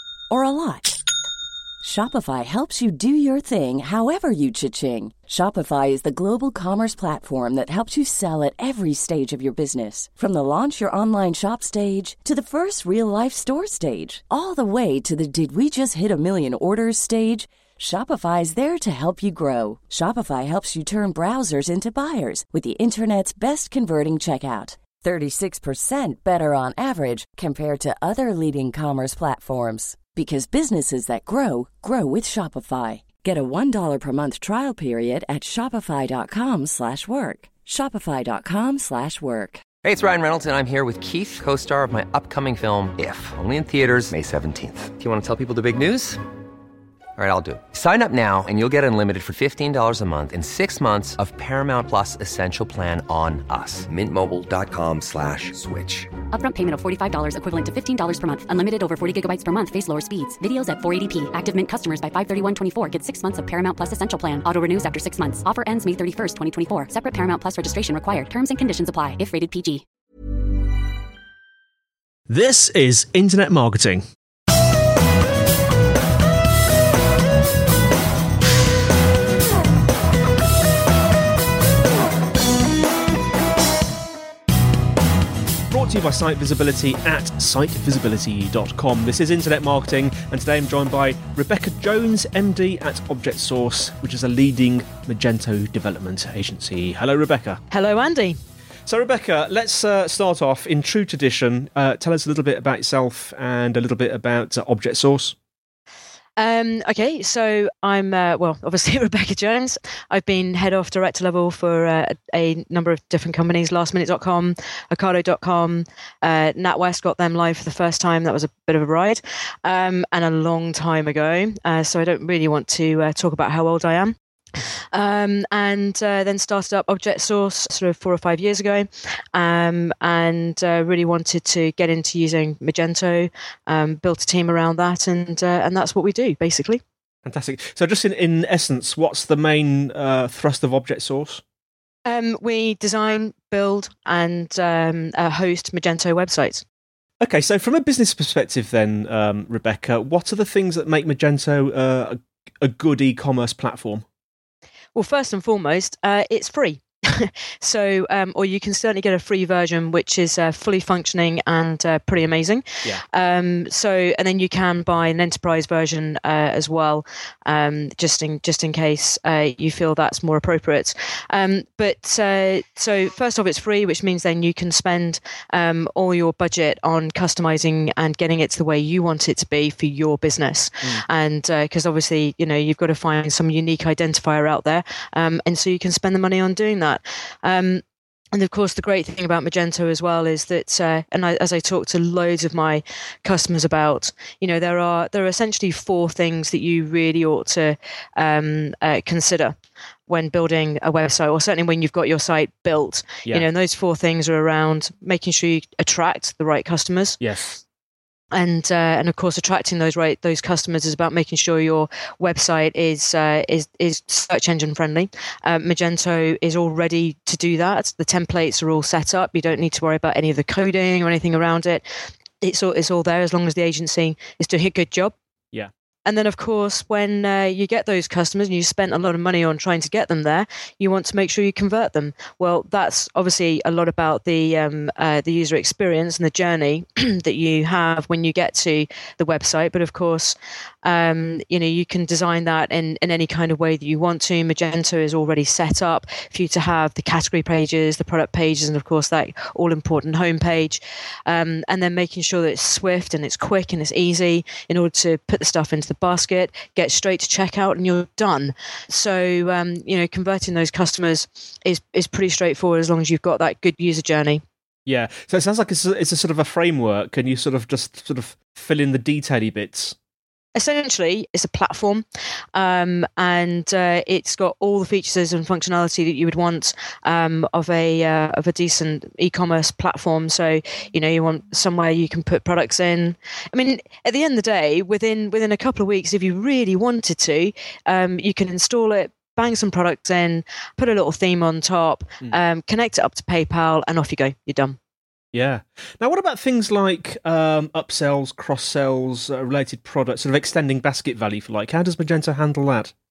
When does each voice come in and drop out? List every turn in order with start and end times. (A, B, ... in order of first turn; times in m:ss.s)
0:00.3-0:01.0 A
0:01.8-0:39.6 A
0:39.8-0:46.2 B
0:47.2-0:56.1 B
0:56.3-1:09.8 C
1:12.3-1:14.0 D
1:25.7-1:37.6 D
1:37.7-1:38.4 E
1:38.9-1:45.3 D
1:46.4-2:04.1 E
2:04.9-2:16.8 E
2:17.2-2:21.4 D
2:22.0-2:26.6 E
2:27.2-2:34.0 D
2:34.9-3:19.5 E
3:20.1-3:27.2 E
3:27.2-3:27.6 D
3:28.3-3:41.8 E
3:42.4-3:45.1 E
3:46.0-4:24.4 E
4:24.9-4:30.0 D
4:30.6-4:54.8 E
4:55.3-5:02.9 D